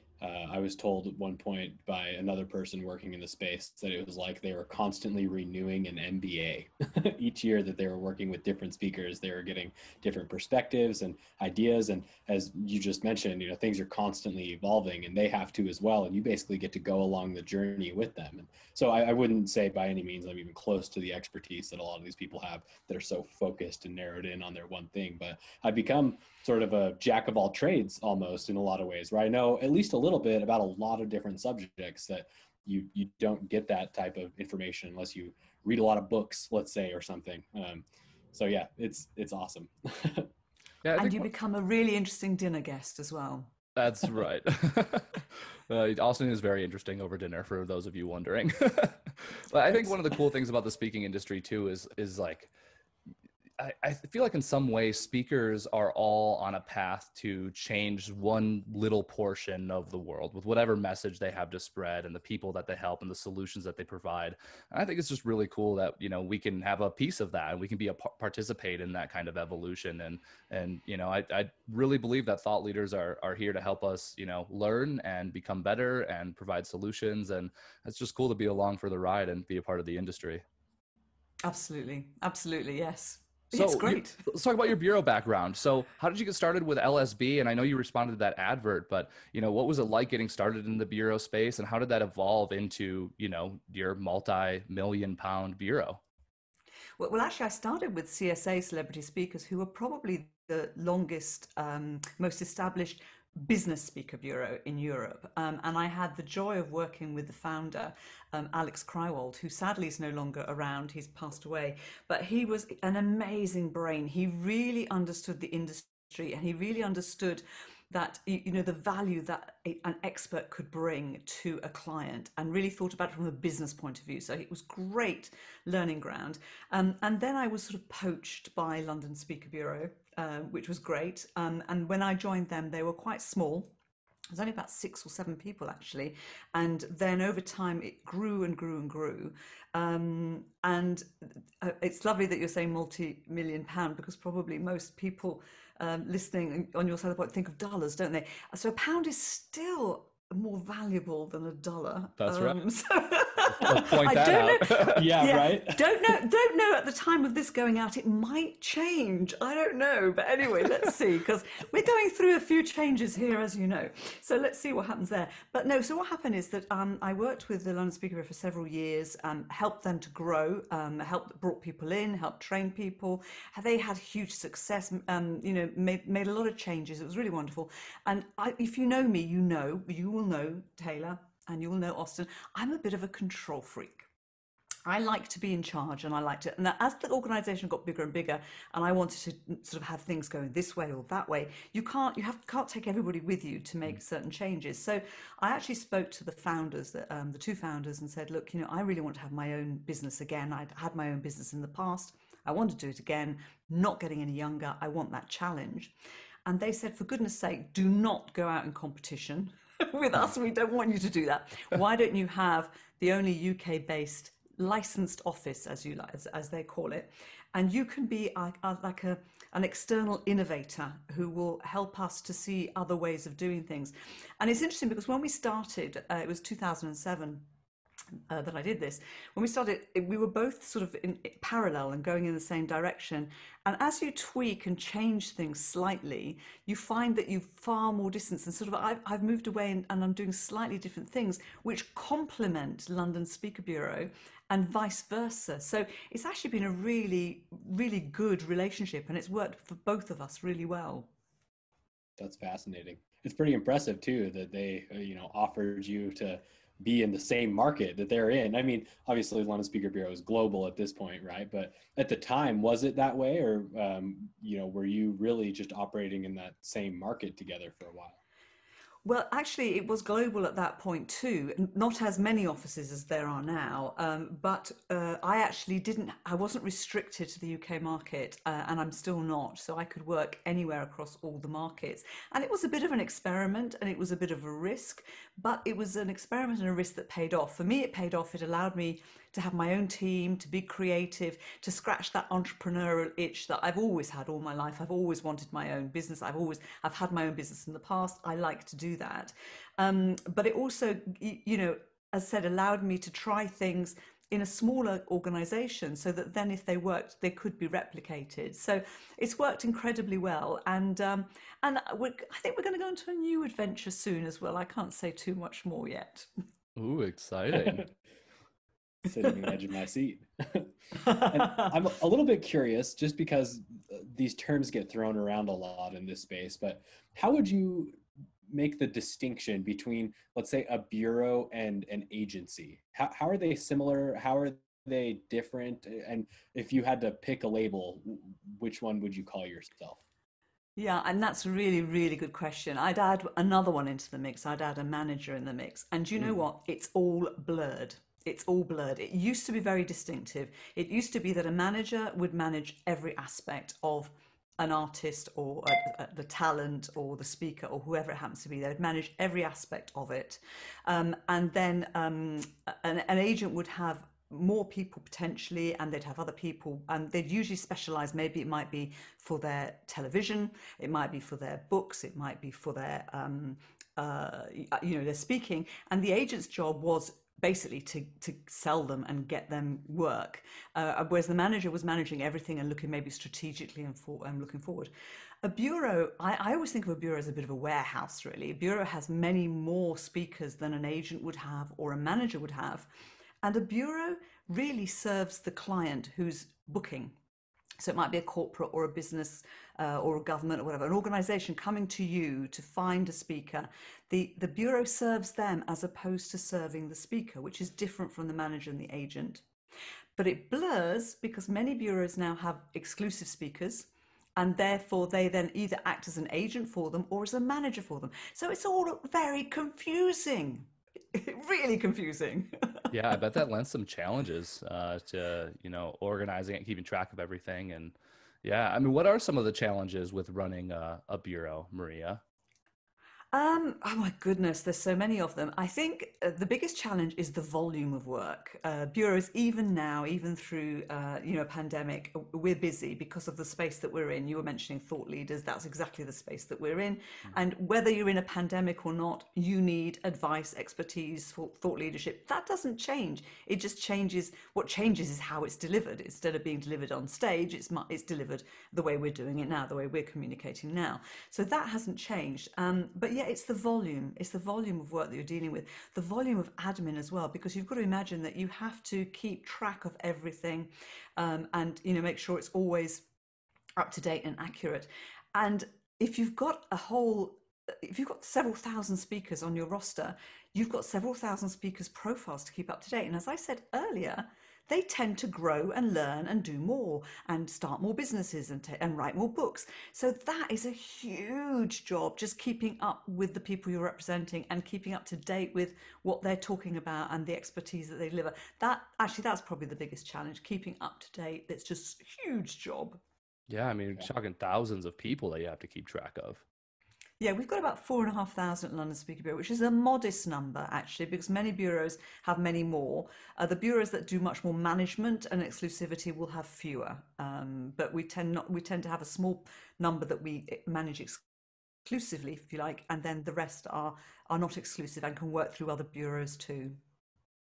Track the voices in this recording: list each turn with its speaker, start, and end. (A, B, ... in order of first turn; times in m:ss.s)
0:00.2-0:40.3 A
0:40.8-0:41.3 B
0:40.9-0:43.5 C
0:43.8-0:52.5 B
0:53.6-1:20.4 B
1:21.4-1:24.2 C
1:23.5-1:36.0 B
1:37.0-2:13.7 C
2:14.3-3:04.1 C
2:32.2-2:32.6 B
2:33.6-2:35.1 B
2:34.9-2:35.9 A
3:04.9-3:25.9 C
3:26.5-3:47.5 C
3:48.3-4:11.1 C
4:12.2-4:28.2 A
4:29.0-5:16.3 C
5:16.8-5:17.9 B
5:17.5-5:17.8 A
5:19.0-5:40.0 A
5:40.8-6:24.9 C
6:25.4-6:32.9 C
6:33.4-6:37.2 C
6:37.8-6:49.4 C
6:50.2-7:02.9 C
7:02.9-7:12.2 B
7:13.3-7:53.1 C
7:53.8-8:23.0 C
8:23.5-8:26.4 B
8:27.2-8:41.2 C
8:41.8-8:46.8 C